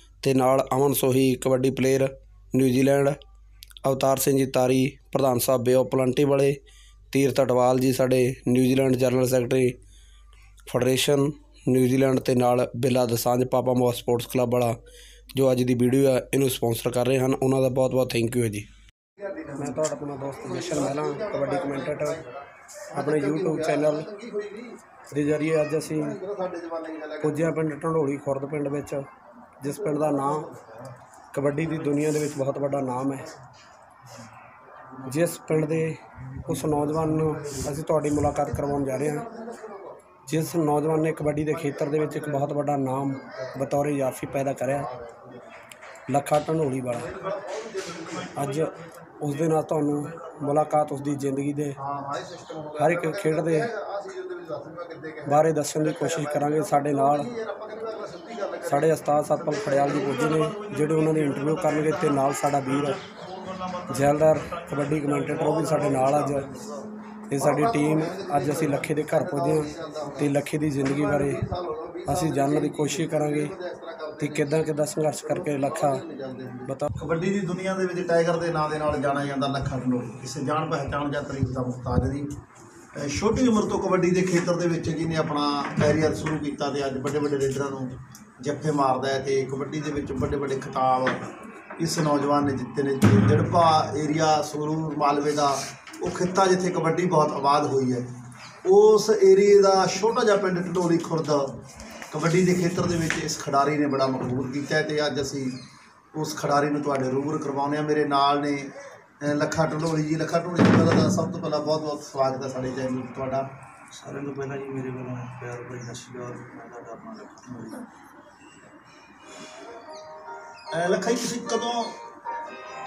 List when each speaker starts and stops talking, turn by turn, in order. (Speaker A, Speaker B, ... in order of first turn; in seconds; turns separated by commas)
Speaker A: 0.2-3.2, Speaker A: 3.8-6.6, Speaker A: 7.1-9.8, Speaker A: 10.7-14.8, Speaker A: 15.3-18.7, Speaker B: 19.2-24.8, Speaker A: 19.6-22.2, Speaker A: 22.9-24.1, Speaker A: 25.1-26.1, Speaker B: 25.8-27.5, Speaker A: 27.2-29.1, Speaker A: 29.6-30.5, Speaker B: 29.6-30.9, Speaker A: 31.3-33.3, Speaker B: 31.6-32.1, Speaker A: 35.1-39.2, Speaker B: 38.3-40.2, Speaker A: 40.3-44.9, Speaker B: 41.1-43.5, Speaker B: 44.4-45.5, Speaker A: 46.1-47.1, Speaker B: 46.9-48.3, Speaker C: 47.1-51.3, Speaker A: 48.3-48.7, Speaker A: 49.2-51.8, Speaker B: 51.8-62.3, Speaker A: 52.8-53.7, Speaker A: 55.3-57.3, Speaker A: 58.6-63.0, Speaker C: 62.6-66.2, Speaker A: 63.9-66.5, Speaker B: 65.3-74.6, Speaker A: 67.3-71.4, Speaker A: 72.0-73.5, Speaker A: 74.2-76.0, Speaker B: 75.2-82.3, Speaker B: 83.0-91.2, Speaker B: 91.8-98.0, Speaker B: 98.6-101.5, Speaker B: 102.1-105.5, Speaker B: 106.1-113.5, Speaker C: 113.9-117.8, Speaker B: 120.7-122.0